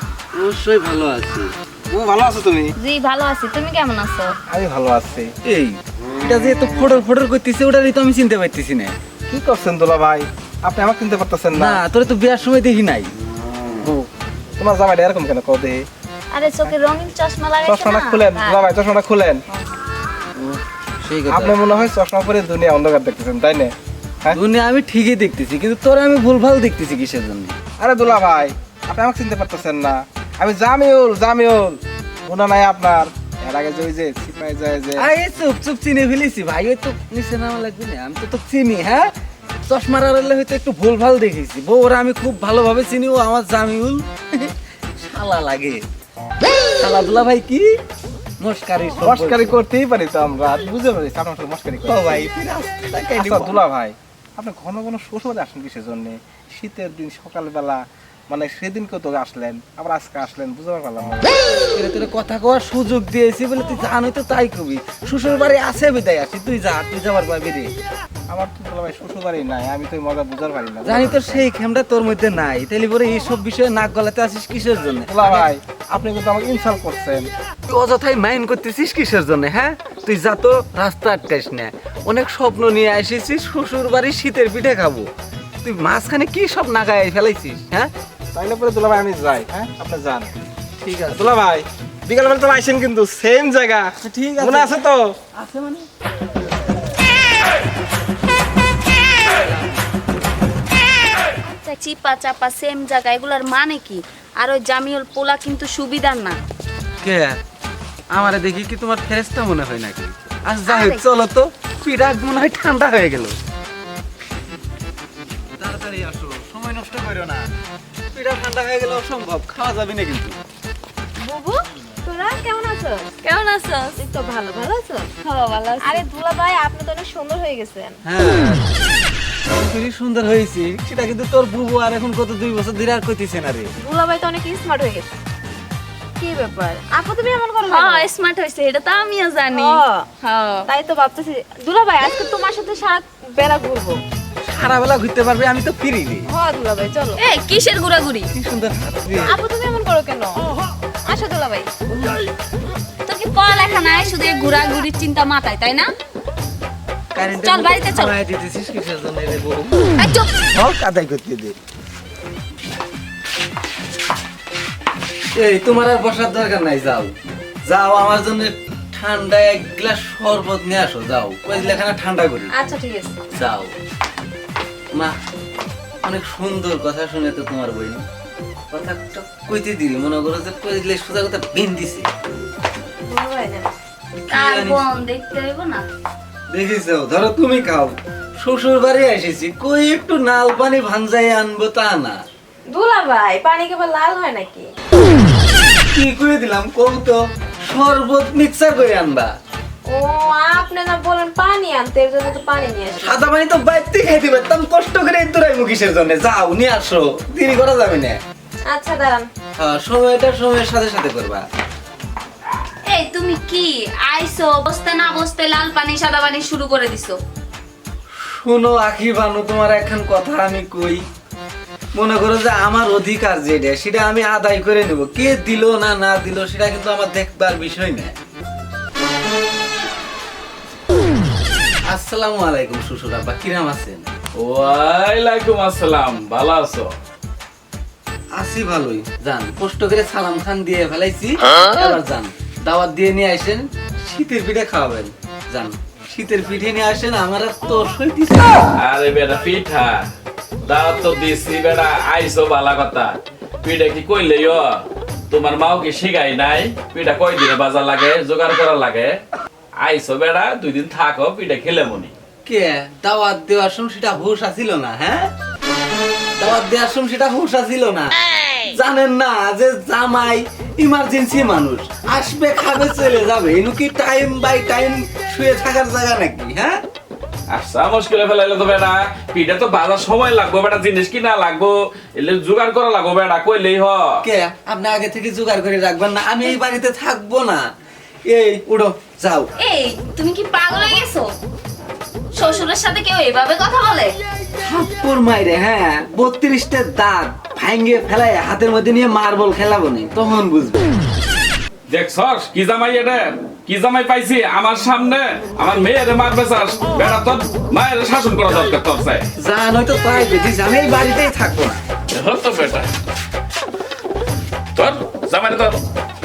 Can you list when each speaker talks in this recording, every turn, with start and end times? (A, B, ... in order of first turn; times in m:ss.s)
0:00.3-0:01.5 A
0:01.9-0:02.7 B
0:02.8-0:04.4 C
0:04.5-0:05.3 B
0:05.4-0:09.0 A
0:09.3-0:11.8 B
0:11.5-0:13.1 A
0:14.6-0:15.9 B
0:16.3-0:18.7 C
0:17.6-0:19.4 B
0:20.4-0:21.6 A
0:21.3-0:23.7 B
0:24.3-0:27.6 A
0:27.8-0:35.1 B
0:35.0-0:39.1 A
0:39.6-0:45.9 A
0:46.8-0:47.8 A
0:48.4-0:49.6 A
0:49.0-0:52.3 B
0:51.8-0:53.6 A
0:53.2-1:01.4 B
1:01.7-1:07.7 A
1:08.3-1:11.5 B
1:10.8-1:15.5 A
1:15.1-1:17.3 B
1:17.7-1:25.1 A
1:25.6-1:27.9 A
1:28.3-1:30.3 B
1:30.8-1:31.4 A
1:31.1-1:35.2 B
1:34.0-1:34.8 A
1:35.4-1:35.9 A
1:41.5-1:46.4 C
1:47.0-1:47.4 A
1:48.1-1:53.4 A
1:50.7-1:51.0 C
1:55.5-1:57.5 A
1:58.1-2:00.4 A
2:01.2-2:03.2 D
2:03.2-2:04.0 C
2:04.0-2:05.1 D
2:05.2-2:06.0 C
2:05.8-2:08.0 D
2:08.0-2:08.7 A
2:09.5-2:13.7 A
2:13.8-2:15.1 D
2:16.2-2:18.1 D
2:17.6-2:20.7 C
2:19.5-2:20.1 D
2:20.7-2:24.0 D
2:24.4-2:26.3 A
2:26.3-2:27.2 D
2:27.2-2:28.3 C
2:28.3-2:29.4 A
2:29.3-2:30.5 D
2:31.0-2:31.7 D
2:33.1-2:35.9 C
2:37.1-2:39.9 A
2:37.3-2:38.2 C
2:40.0-2:40.3 C
2:40.5-2:41.6 A
2:45.3-2:52.5 A
2:52.5-2:53.2 D
2:53.3-2:53.8 A
2:56.0-2:58.0 A
2:58.7-3:02.1 A
3:03.0-3:03.7 D
3:04.3-3:05.0 A
3:04.3-3:05.9 C
3:06.5-3:12.2 A
3:12.7-3:14.7 D
3:15.9-3:19.4 A
3:19.8-3:23.2 D
3:23.0-3:28.2 A
3:28.7-3:29.3 D
3:29.6-3:31.4 A
3:32.8-3:37.2 C
3:38.2-3:41.0 A
3:41.9-3:48.2 A
3:51.8-3:54.1 A
3:54.4-3:56.9 E
3:58.3-4:08.7 A
4:08.8-4:10.0 E
4:10.6-4:19.2 E
4:19.8-4:22.1 E
4:22.4-4:25.3 A
4:26.4-4:28.2 A
4:28.7-4:36.8 A
4:37.5-4:44.1 E
4:44.2-4:47.6 A
4:48.3-4:49.5 A
4:49.6-4:51.3 C
4:52.3-4:54.2 C
4:54.6-5:00.9 A
5:01.9-5:09.3 E
5:09.4-5:11.8 A
5:12.1-5:12.9 E
5:14.8-5:15.8 E